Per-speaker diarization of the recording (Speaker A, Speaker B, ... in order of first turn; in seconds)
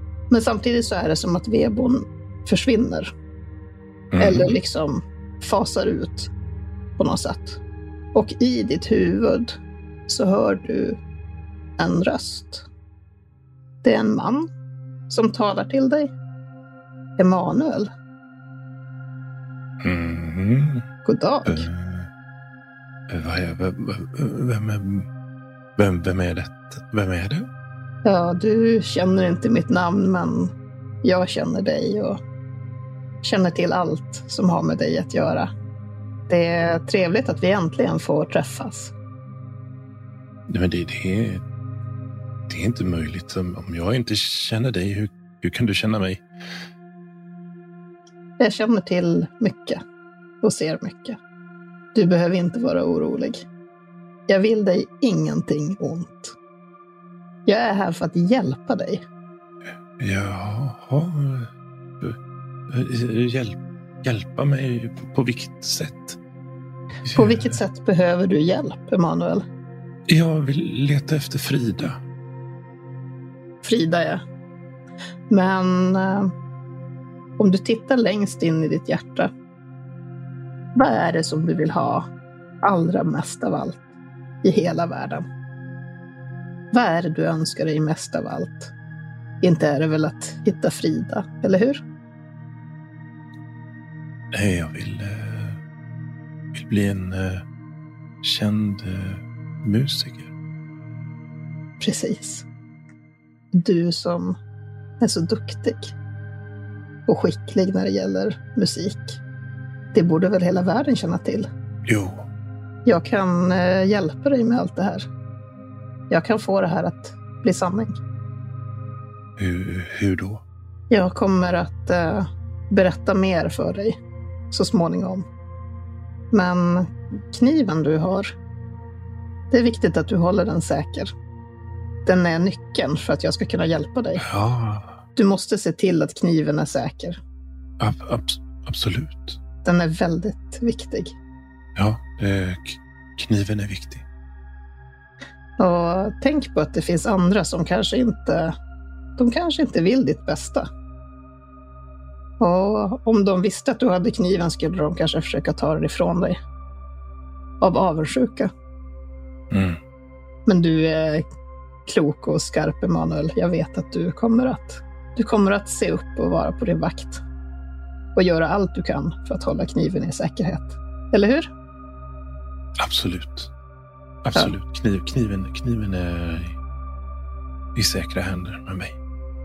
Speaker A: 0.3-3.1, 4.2-6.3, 7.0-7.6, 8.1-9.5, 10.1-11.0, 11.8-12.6, 13.8-14.5, 15.1-16.1, 17.2-17.9, 21.0-21.6, 28.0-30.5, 31.0-32.2, 33.2-35.5, 36.3-38.9, 48.4-49.8, 50.4-51.2, 51.9-53.4, 54.3-56.3, 57.5-59.0, 67.1-69.4, 73.6-74.2, 75.3-76.3, 77.4-79.3, 80.7-82.0, 82.6-83.8, 84.4-85.2, 86.7-88.7, 89.4-91.8, 101.8-102.4, 103.5-104.3, 105.0-105.9, 107.1-109.2, 109.9-111.5, 112.8-115.0, 116.1-118.0, 120.9-124.0, 124.5-125.2, 126.3-128.3, 129.5-131.1, 132.0-134.2, 135.2-137.2, 139.6-141.1, 145.6-148.5, 149.2-150.7, 152.4-156.4, 157.6-158.5, 160.4-161.2, 161.8-167.2, 168.1-171.5
Speaker B: 4.1-4.6, 19.8-20.9, 21.4-22.1, 23.1-25.1, 25.8-27.5, 40.5-41.4, 42.5-46.2, 60.0-62.2, 62.7-66.2, 67.0-67.6, 70.1-72.0, 94.3-95.6, 96.5-97.4, 98.2-100.3, 111.8-112.2, 119.4-120.4, 134.2-135.0, 137.8-139.4, 141.8-144.0, 159.5-159.8, 172.8-173.5, 174.2-176.6, 177.7-178.9